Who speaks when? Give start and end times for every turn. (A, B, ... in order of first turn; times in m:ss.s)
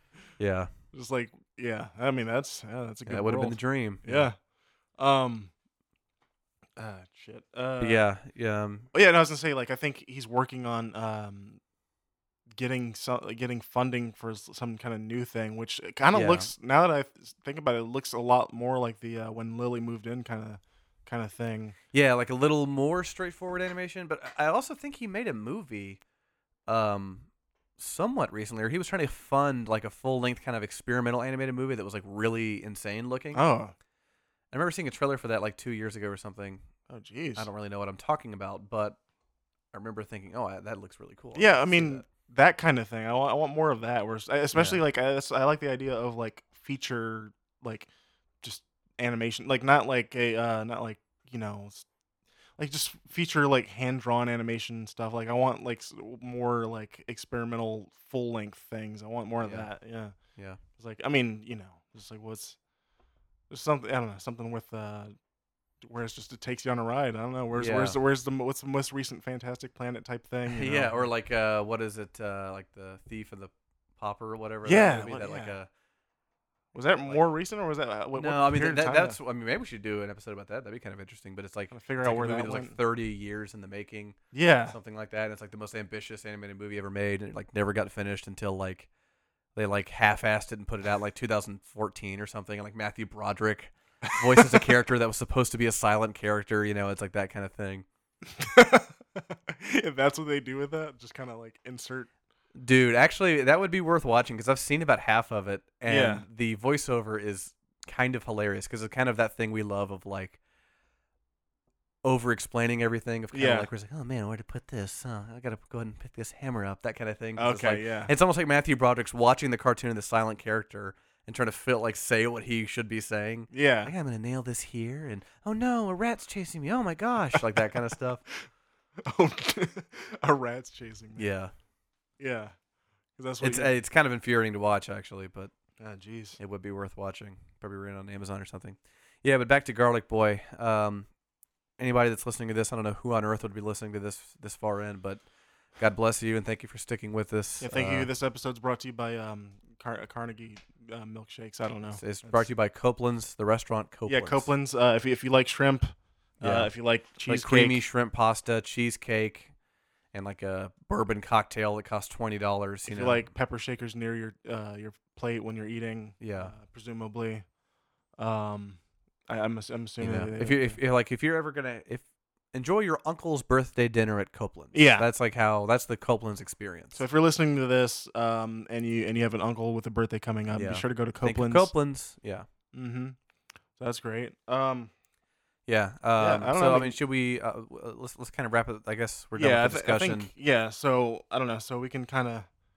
0:00.4-0:00.7 A
0:00.9-0:04.4 B
0:03.0-0:04.3 A
0:05.0-0:05.5 B
0:06.8-0:08.0 B
0:07.8-0:08.9 A
0:08.9-0:11.6 B
0:12.5-0:21.8 B
0:16.1-0:16.5 A
0:21.9-0:26.0 A
0:26.7-0:33.4 A
0:33.3-0:33.7 B
0:34.5-0:36.7 A
0:36.9-0:37.5 B
0:37.4-0:39.0 A
0:39.7-0:42.0 A
0:41.3-0:47.9 B
0:44.5-0:44.8 A
0:48.4-0:51.9 B
0:52.6-1:00.1 B
0:59.4-0:59.7 A
1:00.8-1:02.6 B
1:03.5-1:05.1 B
1:05.8-1:11.0 B
1:07.5-1:08.0 A
1:10.4-1:15.7 A
1:14.6-1:15.6 B
1:16.7-1:19.2 B
1:18.1-1:28.9 A
1:21.7-1:22.8 B
1:24.3-1:24.8 B
1:29.5-1:37.8 A
1:34.1-1:34.7 B
1:38.3-1:42.1 B
1:42.5-1:50.4 A
1:45.8-1:46.2 B
1:52.0-2:08.2 A
1:53.3-1:53.7 B
1:57.4-1:58.1 B
2:03.5-2:03.9 B
2:09.0-2:11.3 B
2:11.2-2:11.5 A
2:12.2-2:12.5 B
2:13.2-2:13.7 B
2:13.4-2:15.5 A
2:15.8-2:16.4 B
2:16.4-2:21.1 A
2:21.8-2:25.2 A
2:25.8-2:28.1 A
2:27.6-2:32.5 B
2:31.9-2:34.5 A
2:34.1-2:37.8 B
2:36.4-2:36.7 A
2:37.2-2:39.5 A
2:40.1-2:43.3 A
2:42.9-2:47.4 B
2:46.2-2:46.5 A
2:48.2-2:50.8 B
2:50.0-2:57.0 A
2:54.7-2:55.1 B
2:56.9-3:01.7 B
3:00.5-3:02.4 A
3:02.7-3:03.2 B
3:03.8-3:04.9 B
3:05.7-3:10.3 A
3:06.2-3:07.0 B
3:09.4-3:12.5 B